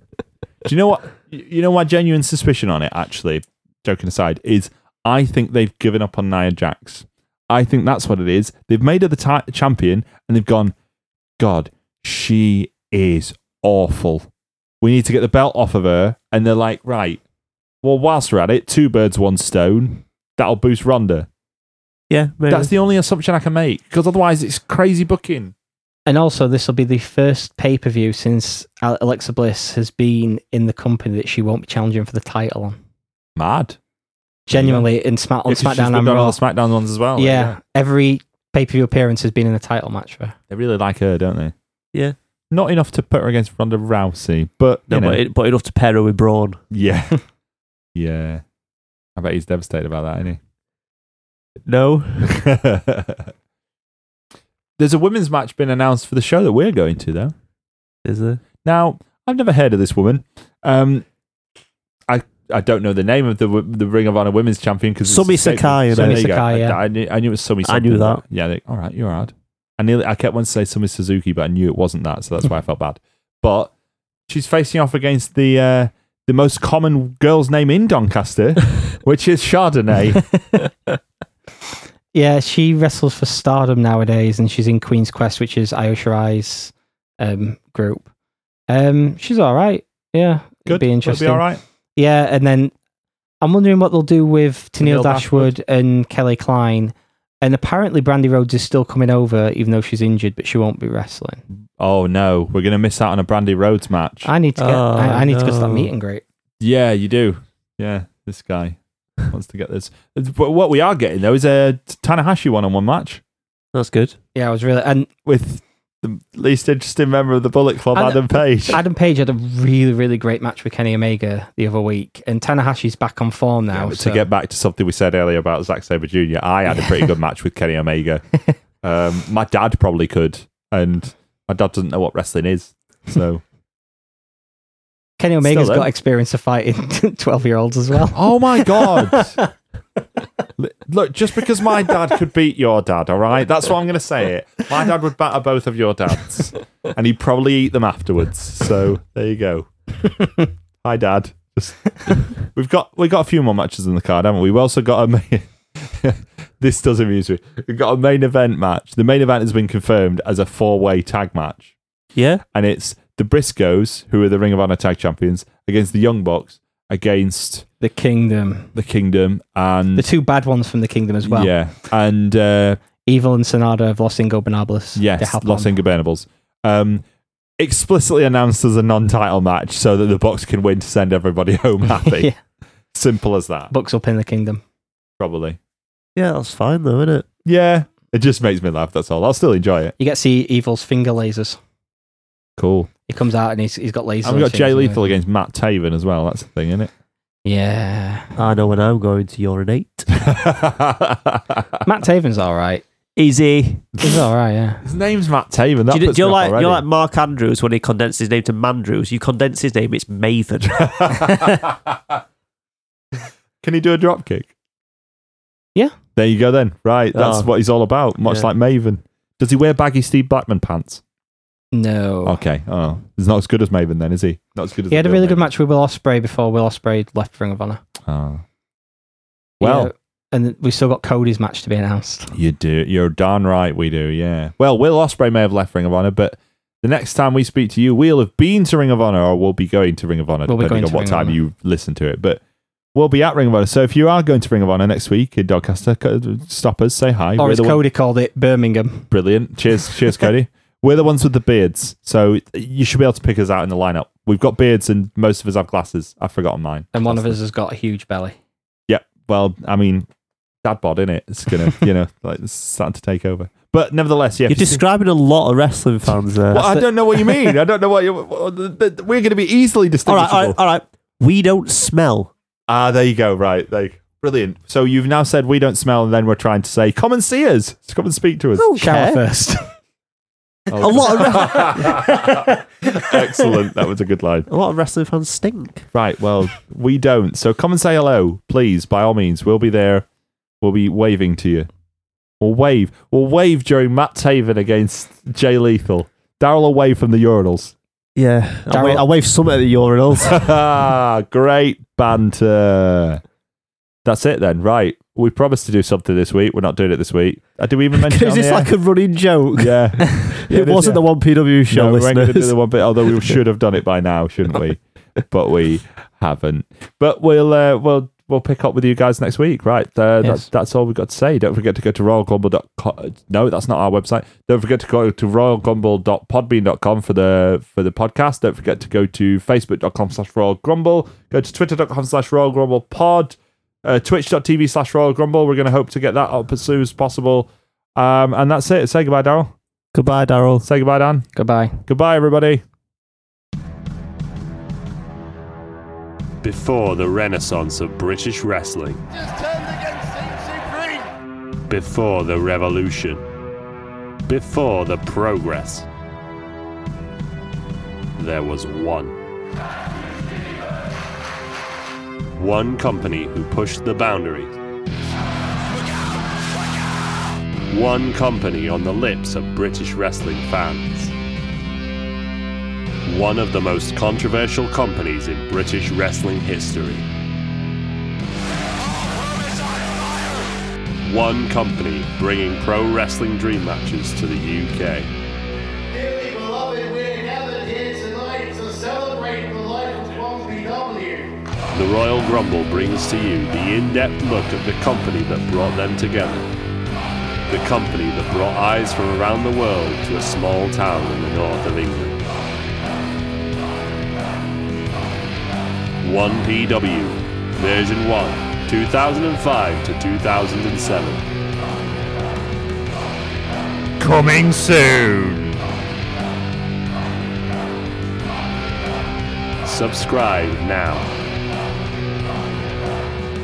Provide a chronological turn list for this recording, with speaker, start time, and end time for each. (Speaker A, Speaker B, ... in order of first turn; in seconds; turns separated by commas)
Speaker A: 0.6-10.7, Speaker A: 11.4-14.3, Speaker A: 14.8-17.2, Speaker A: 17.8-21.3, Speaker B: 22.1-22.7, Speaker A: 22.5-25.5, Speaker C: 26.1-32.8, Speaker A: 33.4-33.8, Speaker C: 34.5-36.4, Speaker A: 34.5-34.9, Speaker A: 35.5-37.6, Speaker C: 37.2-40.4, Speaker A: 40.5-41.5, Speaker A: 42.5-45.2, Speaker B: 44.9-46.6, Speaker A: 46.7-47.2, Speaker A: 48.0-48.4, Speaker A: 49.2-50.4, Speaker B: 51.7-52.4, Speaker A: 52.3-53.3, Speaker A: 54.8-57.3, Speaker B: 58.0-58.4, Speaker A: 58.6-61.0, Speaker A: 62.1-73.7, Speaker B: 65.0-66.2, Speaker C: 66.0-66.8, Speaker B: 67.7-68.2, Speaker A: 74.3-80.3, Speaker C: 82.1-88.1, Speaker C: 88.7-92.7, Speaker A: 90.7-91.6, Speaker C: 93.4-101.4, Speaker A: 94.8-95.5, Speaker A: 101.8-104.3, Speaker C: 104.2-106.2, Speaker B: 104.6-105.9, Speaker A: 106.6-113.2, Speaker B: 113.7-114.2, Speaker C: 114.3-115.1, Speaker A: 115.2-118.8, Speaker C: 118.0-124.3, Speaker A: 123.7-128.2, Speaker A: 128.8-133.4, Speaker C: 135.2-139.5, Speaker A: 135.4-135.9, Speaker A: 138.1-139.4, Speaker A: 140.6-150.3, Speaker A: 150.8-161.7, Speaker B: 162.2-162.4, Speaker A: 162.5-167.7, Speaker C: 167.8-168.7, Speaker A: 168.7-170.1, Speaker C: 170.0-171.5, Speaker A: 171.2-172.8, Speaker C: 173.1-175.7, Speaker A: 174.9-177.0, Speaker A: 177.6-182.3, Speaker C: 182.0-182.4, Speaker A: 182.9-183.7, Speaker C: 183.7-184.6, Speaker A: 185.2-185.6, Speaker B: 186.2-187.3, Speaker A: 187.4-189.9, Speaker C: 190.0-191.6, Speaker A: 192.6-192.9, Speaker C: 193.1-195.1, Speaker A: 194.2-196.9, Speaker C: 197.4-198.3, Speaker B: 198.4-200.1, Speaker A: 200.1-201.8, Speaker C: 201.9-202.8, Speaker B: 203.2-203.9, Speaker C: 204.0-204.8, Speaker A: 204.8-206.8, Speaker B: 205.9-211.6, Speaker A: 210.8-212.1, Speaker A: 213.6-214.5, Speaker A: 216.2-221.0, Speaker B: 217.1-217.5, Speaker C: 221.7-222.4, Speaker A: 222.2-225.5, Speaker C: 224.9-227.8, Speaker A: 228.1-228.4, Speaker A: 229.6-229.9, Speaker C: 229.6-232.3, Speaker A: 232.3-242.4, Speaker C: 240.5-241.4, Speaker A: 242.9-247.8, Speaker C: 247.4-249.1, Speaker A: 249.1-257.4, Speaker C: 256.9-258.4, Speaker A: 258.9-260.1, Speaker A: 260.6-264.8, Speaker B: 264.5-266.7, Speaker A: 266.5-270.6, Speaker C: 266.6-266.9, Speaker B: 270.1-272.3, Speaker A: 272.7-278.7, Speaker B: 278.6-279.2, Speaker C: 278.8-279.7, Speaker A: 280.7-284.5, Speaker B: 280.8-282.0, Speaker C: 281.6-282.5, Speaker B: 284.5-285.9, Speaker A: 285.9-290.1, Speaker A: 290.6-291.7, Speaker A: 292.4-297.7, Speaker B: 298.2-300.4, Speaker C: 298.7-299.1, Speaker A: 300.2-303.2, Speaker A: 304.1-308.7, Speaker B: 307.9-313.4, Speaker A: 309.6-311.0, Speaker A: 311.7-339.5, Speaker C: 320.2-320.5, Speaker B: 339.9-340.7, Speaker A: 340.6-341.3, Speaker C: 341.4-341.8, Speaker A: 341.9-342.6, Speaker D: 346.4-349.0, Speaker E: 349.5-351.0, Speaker D: 351.7-353.2, Speaker D: 354.3-355.9, Speaker D: 358.2-359.1, Speaker D: 362.4-364.6, Speaker D: 367.7-371.1, Speaker D: 373.1-377.1, Speaker D: 381.0-385.1, Speaker E: 385.9-391.3, Speaker D: 391.7-396.4, Speaker D: 397.5-402.2, Speaker D: 406.0-411.2, Speaker A: 414.0-415.5, Speaker D: 414.0-415.2, Speaker D: 419.6-421.1